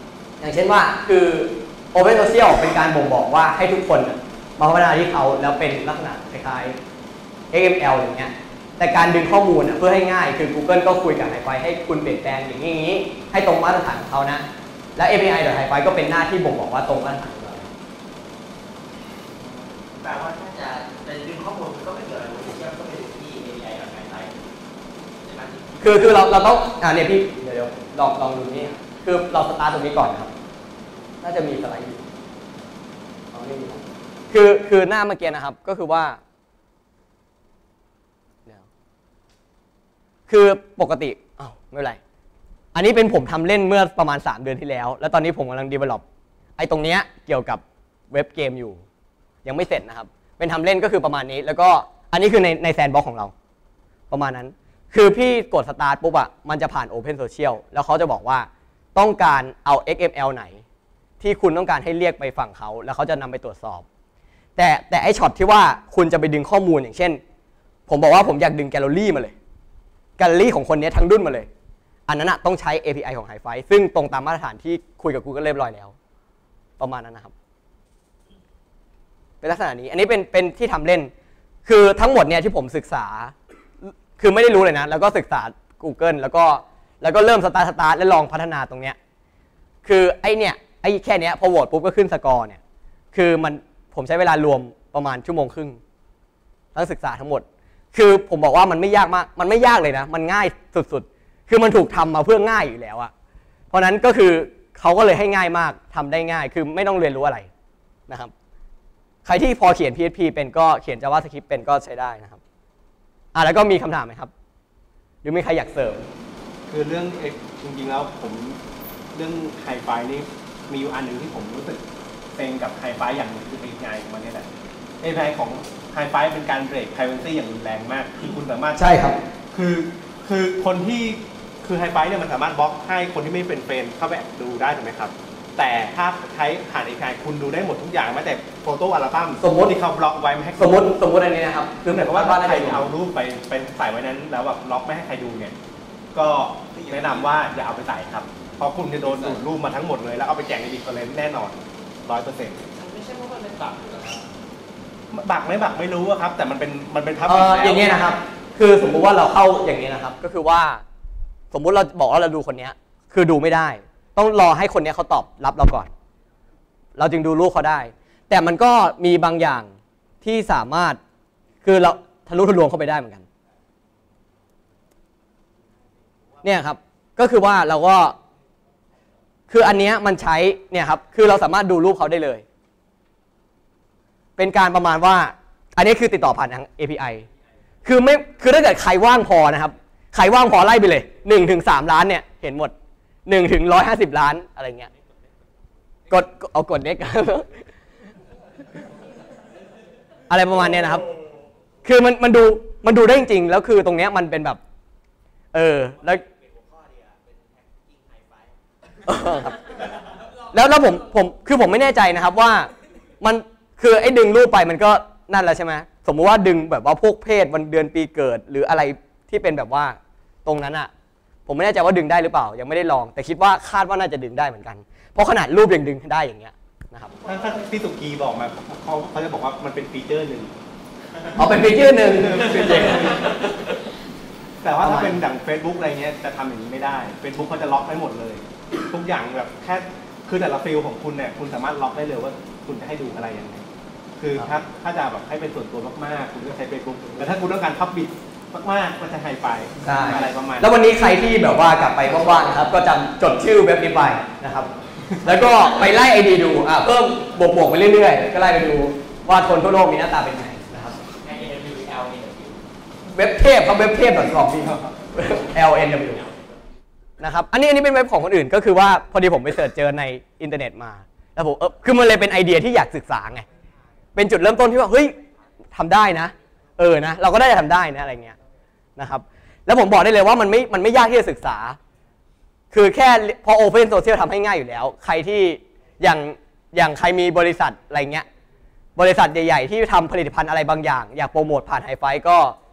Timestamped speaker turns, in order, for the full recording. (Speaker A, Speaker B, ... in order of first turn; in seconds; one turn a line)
Speaker A: 0.4-6.8
Speaker A: 7.5-14.4
Speaker A: 15.0-17.7
Speaker B: 20.0-24.4
Speaker B: 25.2-26.8
Speaker A: 25.8-30.3
Speaker A: 31.2-32.0
Speaker A: 33.3-36.2
Speaker A: 40.3-42.0
Speaker A: 42.8-46.0
Speaker A: 46.6-48.8
Speaker A: 49.5-53.3
Speaker A: 54.1-60.6
Speaker A: 61.2-63.9
Speaker A: 64.6-67.2
Speaker A: 67.9-69.3
Speaker A: 70.2-71.5
Speaker A: 72.1-76.0
Speaker A: 76.8-77.3
Speaker A: 79.4-81.1
Speaker A: 81.7-89.0
Speaker A: 89.8-92.6
Speaker A: 93.1-95.8
Speaker A: 96.8-103.1
Speaker A: 103.7-107.5
Speaker A: 109.2-112.4
Speaker A: 113.3-114.3
Speaker A: 115.2-116.1
Speaker C: 116.7-118.6
Speaker C: 119.1-121.8
Speaker C: 122.3-124.5
Speaker C: 125.0-128.9
Speaker A: 128.8-129.2
Speaker C: 129.5-140.9
Speaker A: 139.4-139.7
Speaker A: 140.6-142.9
Speaker C: 141.9-145.6
Speaker C: 146.1-152.6
Speaker B: 146.7-147.4
Speaker B: 149.0-149.4
Speaker B: 152.7-154.2
Speaker C: 155.1-158.1
Speaker A: 157.2-160.8
Speaker A: 161.5-165.9
Speaker A: 167.0-171.0
Speaker A: 171.6-173.3
Speaker A: 176.4-178.2
Speaker A: 179.5-182.4
Speaker A: 184.4-187.3
Speaker A: 187.8-192.7
Speaker A: 193.3-194.9
Speaker A: 196.1-197.7
Speaker A: 200.3-201.1
Speaker A: 201.8-204.6
Speaker A: 205.5-206.2
Speaker B: 206.0-210.5
Speaker A: 209.1-209.8
Speaker A: 210.5-212.7
Speaker A: 213.2-220.9
Speaker A: 221.5-227.2
Speaker C: 227.2-230.5
Speaker A: 231.3-233.5
Speaker C: 231.5-233.4
Speaker C: 234.6-243.7
Speaker A: 234.8-235.2
Speaker C: 244.2-250.7
Speaker A: 249.8-254.7
Speaker C: 255.1-255.4
Speaker A: 255.2-261.0
Speaker B: 261.1-262.6
Speaker A: 263.1-266.2
Speaker B: 265.6-266.6
Speaker A: 267.2-273.4
Speaker A: 274.1-275.1
Speaker A: 275.7-278.4
Speaker A: 279.0-281.8
Speaker A: 282.7-288.2
Speaker A: 289.0-292.6